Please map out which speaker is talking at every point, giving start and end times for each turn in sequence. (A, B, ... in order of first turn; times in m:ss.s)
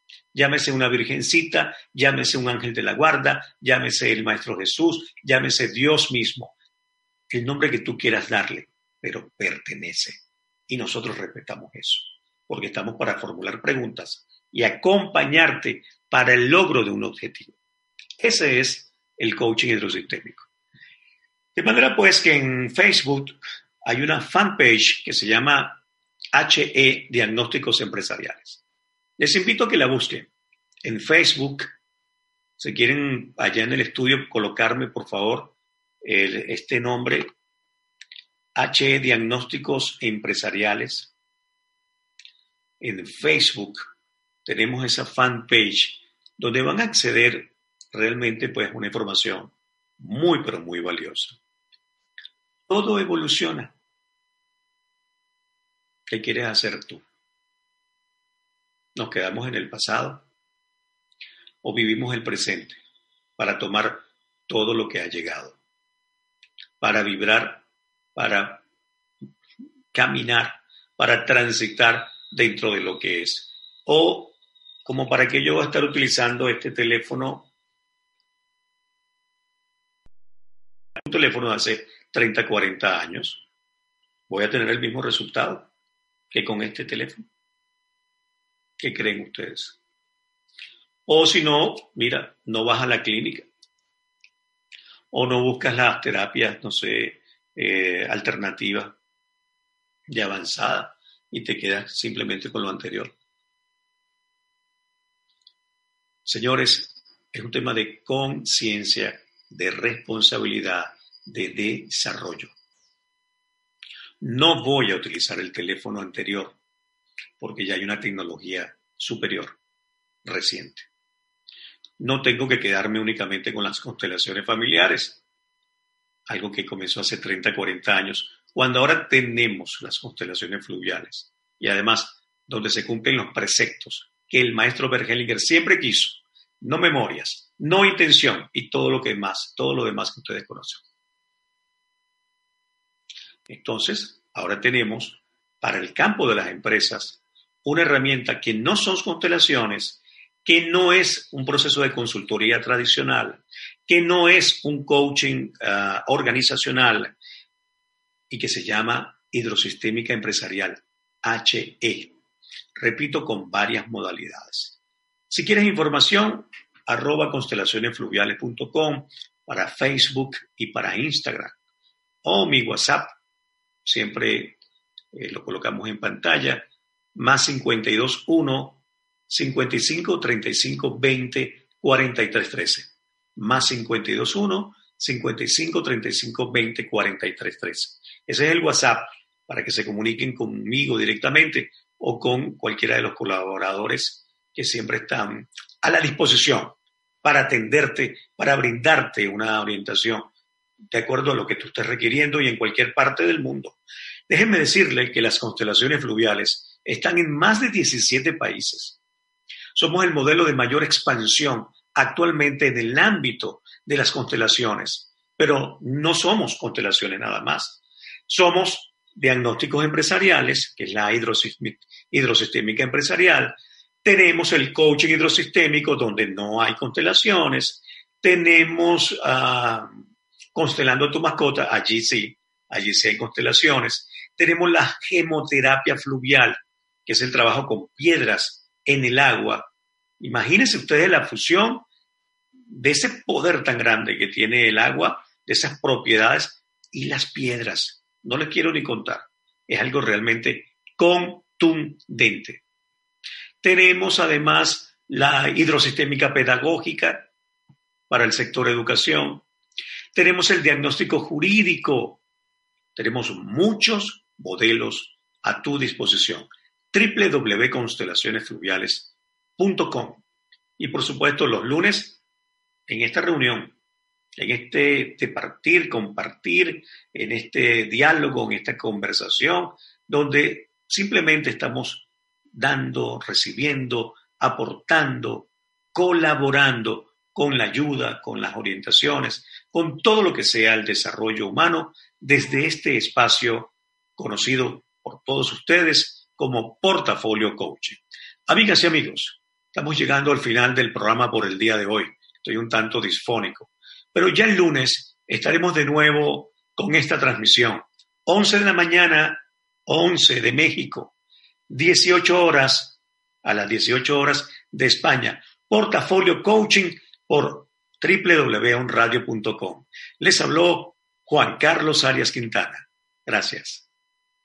0:00.3-0:06.5 A
0:07.3-0:17.6 A
0:18.2-0:20.5 A
0:21.6-0:25.8 A
0:26.3-0:28.6 A
0:29.2-0:30.3 A
0:30.8-0:31.7 A
0:32.6-0:37.3 A
0:38.6-0:41.1 A
0:42.8-0:43.9 A
0:44.4-0:51.4 A
0:52.7-0:53.7 A
0:56.1-0:57.0 A
0:59.0-1:00.2 A
1:01.6-1:02.8 A
1:03.4-1:05.6 A
1:06.8-1:07.6 A
1:08.2-1:08.6 A
1:09.9-1:17.5 A
1:21.0-1:23.4 A
1:24.3-1:25.7 A
1:26.3-1:27.2 A
1:28.8-1:29.8 A
1:31.1-1:33.5 A
1:35.1-1:39.0 A
1:40.1-1:43.2 A
1:46.2-1:52.5 A
1:54.2-1:56.6 A
1:57.4-1:59.6 A
2:00.2-2:00.9 A
2:02.0-2:05.2 A
2:06.3-2:20.8 A
2:23.5-2:37.2 A
2:38.3-2:42.2 A
2:42.8-2:44.8 A
2:45.3-2:51.6 A
2:52.2-2:53.2 A
2:53.8-2:54.6 A
2:55.1-3:20.3 A
3:20.9-3:23.8 A
3:24.3-3:29.0 A
3:29.8-3:50.0 A
3:50.6-3:59.7 A
4:00.2-4:01.9 A
4:02.7-4:12.6 A
4:13.6-4:17.3 A
4:18.1-4:19.4 A
4:20.1-4:22.2 A
4:23.0-4:30.2 A
4:30.8-4:32.2 A
4:32.9-4:33.8 A
4:34.4-5:11.1 A
5:11.7-5:23.9 A